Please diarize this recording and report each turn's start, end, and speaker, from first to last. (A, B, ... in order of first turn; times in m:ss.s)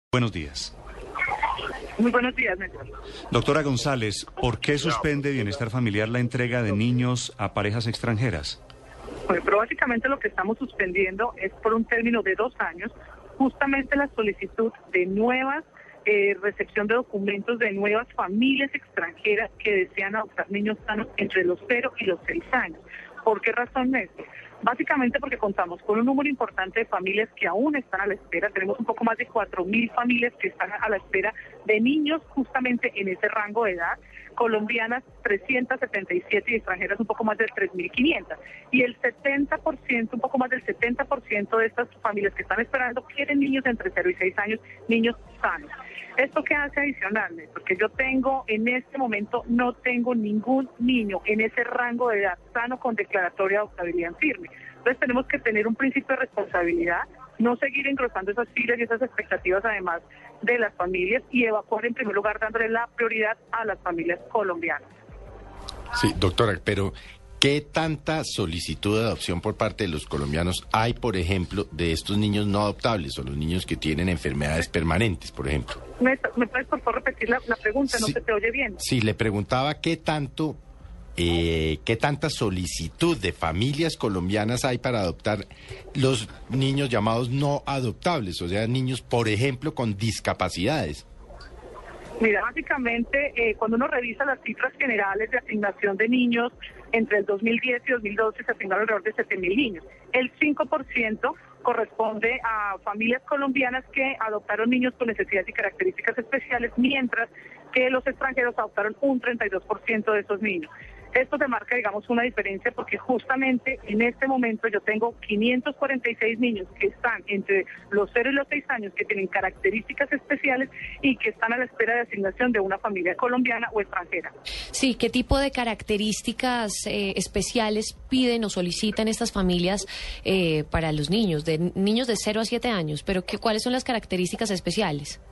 0:00.1-0:00.7 A
0:02.0-0:02.9 B
0:03.3-0:08.6 A
0:09.3-1:04.8 B
1:05.9-1:15.8 C
1:16.0-1:18.8 B
1:18.8-1:20.6 C
1:21.2-1:31.0 C
1:32.2-2:04.3 B
2:04.7-2:15.2 D